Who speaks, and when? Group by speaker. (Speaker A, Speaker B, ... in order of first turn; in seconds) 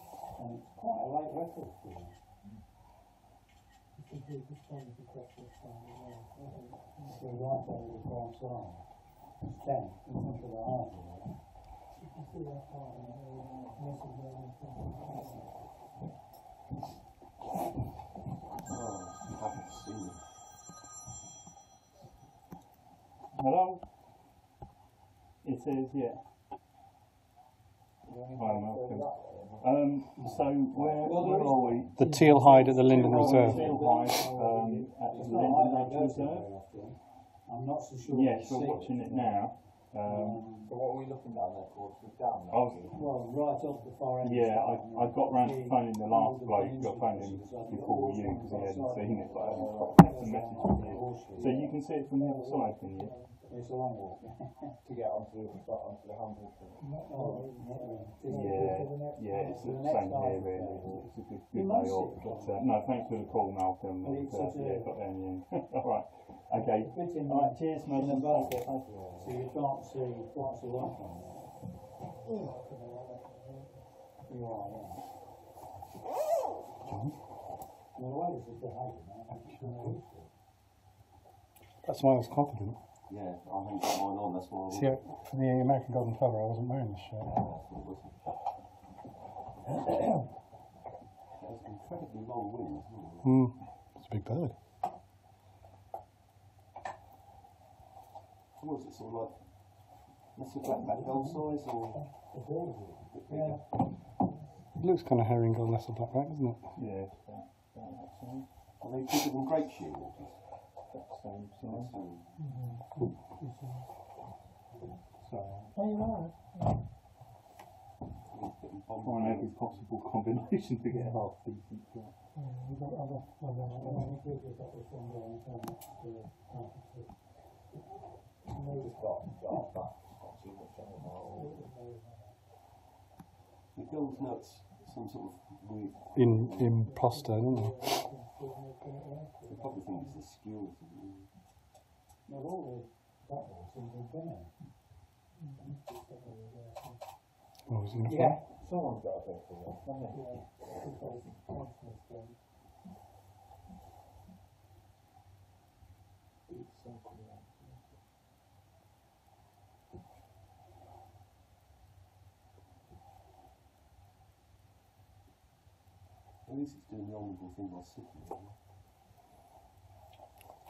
Speaker A: 0.3-2.2, 7.0-11.4, 30.2-40.7, 42.9-51.8, 53.5-54.8, 56.8-64.9, 66.5-71.8, 74.2-75.1, 77.9-80.2, 101.2-103.7, 122.8-127.2, 142.2-144.7, 148.1-148.4
Speaker B: 4.0-7.3, 12.0-15.4, 32.0-34.1, 52.0-53.7, 56.8-59.5, 72.2-73.9, 112.3-113.9, 115.7-116.8, 120.9-121.2, 122.3-124.2, 128.4-129.2, 131.3-132.4, 136.8-140.2, 145.3-147.0, 150.1-152.4
Speaker C: 18.7-20.3, 83.1-85.2, 87.2-88.5, 91.3-93.4, 98.5-102.5, 103.1-103.8, 108.8-110.5, 111.6-112.4, 118.3-119.9, 133.7-136.8, 139.4-141.3, 166.4-168.6
Speaker D: 23.3-23.9, 25.4-26.3, 28.3-36.5, 38.1-40.5, 42.5-42.9, 44.2-53.1, 58.2-69.0, 100.7-101.1, 106.7-108.5, 110.8-112.0, 115.2-115.7, 119.0-122.2
Speaker E: 28.0-31.3, 40.6-43.0, 49.2-50.1, 51.3-51.7, 54.8-57.3, 68.6-69.3, 128.7-131.7, 148.1-151.4, 156.5-157.9
Speaker F: 31.9-33.7, 76.8-77.2, 81.8-82.8, 84.7-87.4, 93.2-94.7, 104.8-106.7, 136.1-137.8, 147.6-148.4